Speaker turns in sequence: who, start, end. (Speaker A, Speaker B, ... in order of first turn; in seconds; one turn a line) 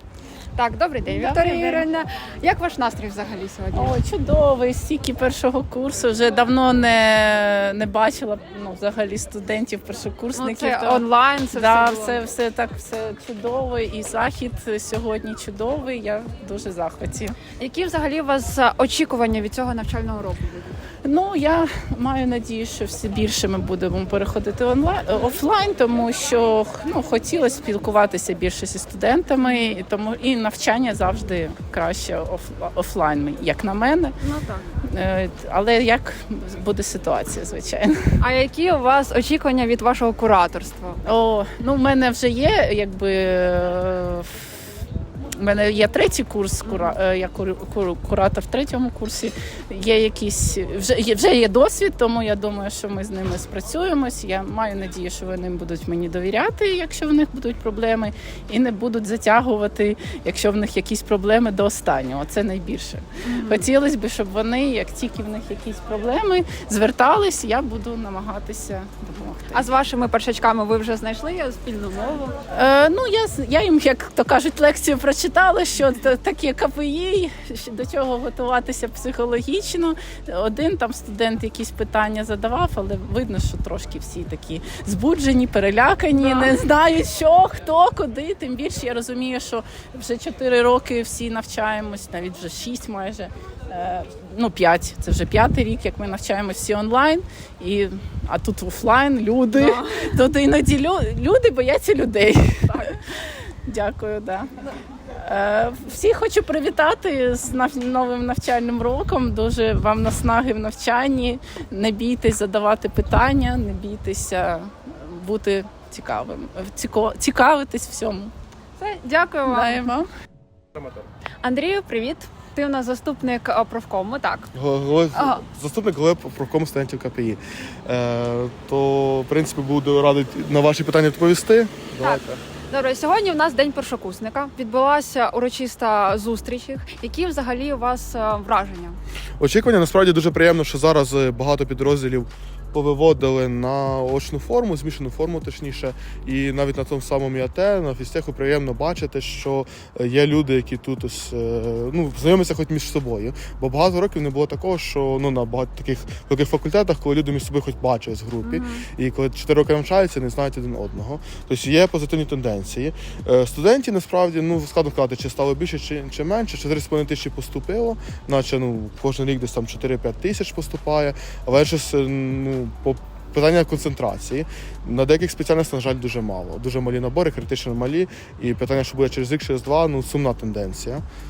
Speaker A: 0.6-4.0
Speaker B: 1.1-1.9
Speaker B: 3.7-17.4
Speaker A: 10.3-12.2
Speaker A: 17.6-20.8
Speaker B: 21.0-34.1
Speaker A: 34.2-34.6
Speaker B: 34.9-38.0
Speaker A: 38.2-41.0
Speaker B: 41.0-44.6
Speaker B: 45.4-69.7
Speaker A: 46.6-47.0
Speaker A: 63.2-63.7
Speaker A: 69.5-72.3
Speaker B: 72.5-102.9
Speaker A: 86.2-86.5
Speaker A: 99.5-100.1
Speaker B: 103.7-104.5
Speaker B: 105.2-118.3
Speaker A: 118.8-119.8
Speaker B: 119.5-120.1
Speaker A: 121.4-124.5
Speaker C: 124.5-132.4
Speaker A: 125.1-125.4
Speaker A: 132.0-139.0
Speaker C: 139.4-181.0
Speaker A: 158.4-158.8